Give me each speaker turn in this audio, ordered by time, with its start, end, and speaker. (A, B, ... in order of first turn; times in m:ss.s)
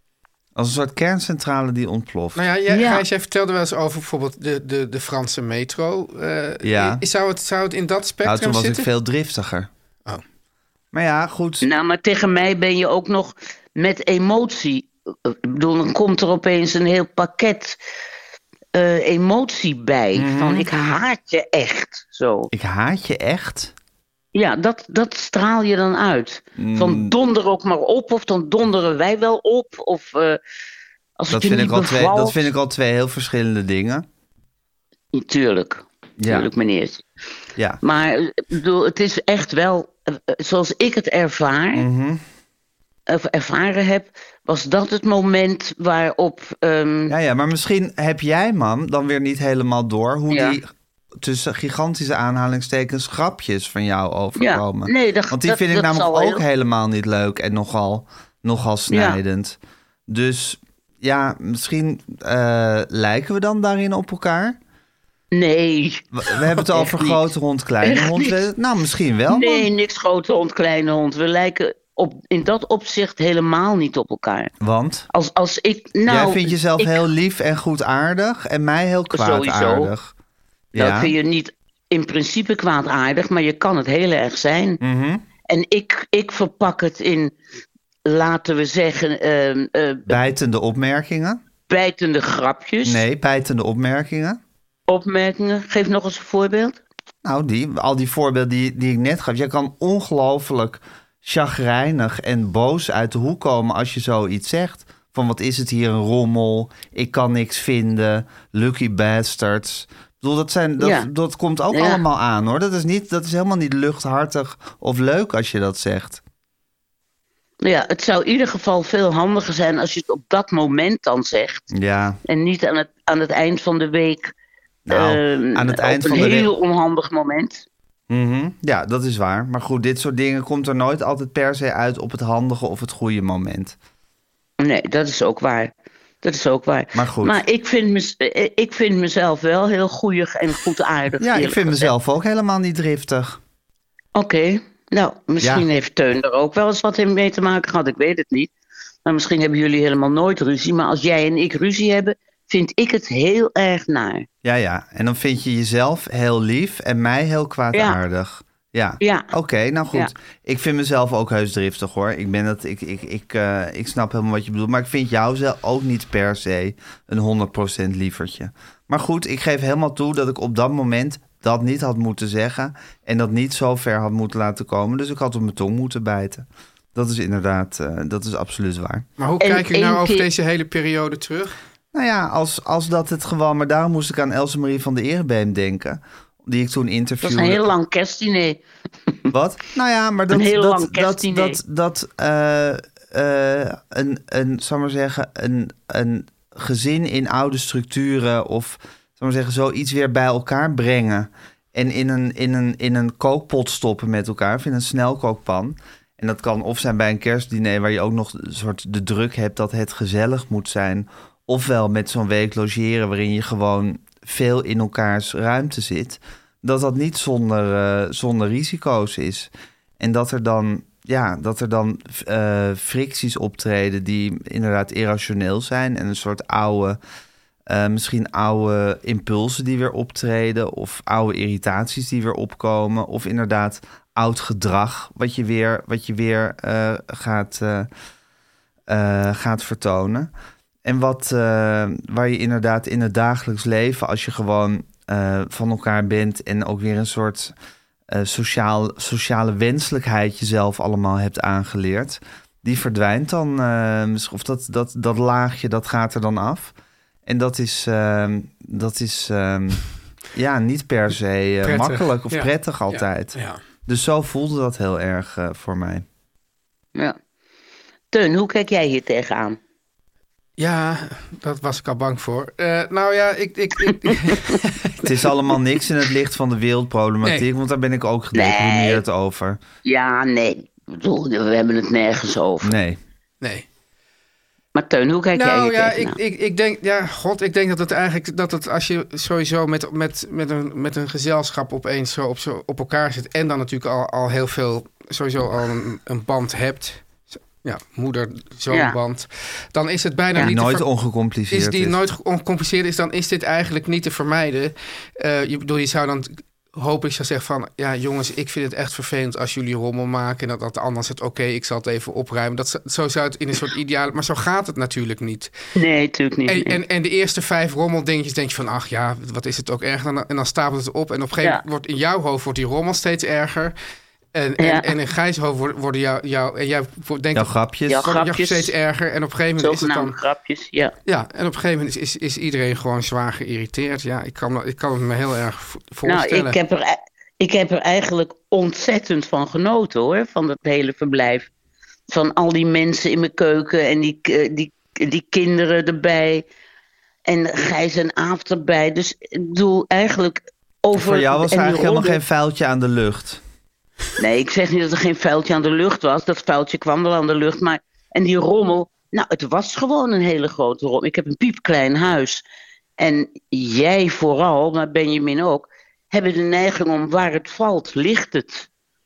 0:00.6-0:02.4 A
0:02.4-0:08.9 B
0:02.7-0:03.0 C
0:06.6-0:07.0 A
0:08.2-0:09.7 A
0:10.9-0:11.7 A
0:11.6-0:17.8 C
0:18.7-0:22.5 C
0:20.2-0:20.7 A
0:22.5-0:23.7 A
0:24.3-0:30.4 C
0:26.6-0:27.2 A
0:31.2-0:32.4 C
0:31.3-0:34.1 A
0:35.1-0:37.0 C
0:36.2-0:36.5 A
0:37.8-0:41.9 C
0:41.7-0:42.2 A
0:43.1-0:47.1 C
0:47.1-1:04.6 A
0:50.3-0:50.6 C
0:54.4-0:56.4 C
0:58.9-0:59.2 C
1:05.3-1:07.2 C
1:06.1-1:09.7 A
1:07.8-1:08.4 C
1:09.3-1:14.5 C
1:14.6-1:15.1 A
1:15.1-1:17.0 C
1:16.1-1:20.1 A
1:19.1-1:19.9 C
1:20.7-1:24.8 C
1:20.8-1:21.1 A
1:24.8-1:25.2 A
1:25.5-1:27.4 C
1:28.0-1:30.2 C
1:30.1-1:31.4 A
1:31.7-1:33.0 C
1:32.8-1:34.4 A
1:34.9-1:36.8 C
1:37.2-1:56.2 A
1:50.8-1:51.1 C
1:51.7-1:52.0 C
1:57.6-2:01.6 C
2:01.7-2:02.2 A
2:02.3-2:04.3 C
2:04.9-2:06.5 A
2:04.9-2:07.6 C
2:08.1-2:13.8 A
2:14.6-2:21.9 C
2:17.0-2:17.4 A
2:21.2-2:23.4 A
2:24.2-2:28.5 C
2:25.4-2:25.7 A
2:29.0-2:34.3 C
2:34.4-2:59.0 A
2:37.7-2:38.0 C
2:39.0-2:39.3 C
2:59.2-3:01.5 B
2:59.4-3:00.3 C
3:01.9-3:07.7 A
3:07.2-3:08.6 C
3:09.3-3:47.0 A
3:10.3-3:11.6 C
3:47.7-3:57.9 A
3:58.9-4:00.3 A
4:00.8-4:07.5 A
4:08.1-4:16.7 A
4:17.3-4:26.0 A
4:21.6-4:23.6 B
4:28.1-4:29.6 C
4:30.6-4:35.1 B
4:34.0-4:34.4 C
4:35.0-4:39.6 A
4:38.3-4:39.0 C
4:39.8-4:42.7 C
4:42.6-4:43.0 A
4:44.8-4:46.2 C
4:45.4-5:00.8 B
4:58.7-4:59.0 C
5:00.4-5:02.0 A
5:01.5-5:15.5 B
5:15.8-5:16.8 C
5:16.5-5:23.7 B
5:24.3-5:27.5 B
5:24.6-5:24.9 C
5:27.3-5:28.2 A
5:27.9-5:28.7 C
5:28.0-5:30.2 B
5:29.6-5:30.9 C
5:31.1-5:36.6 B
5:36.1-5:41.5 C
5:42.1-5:46.5 C
5:47.3-5:52.2 C
5:50.9-5:53.4 A
5:54.2-6:02.4 C
6:03.0-6:08.7 C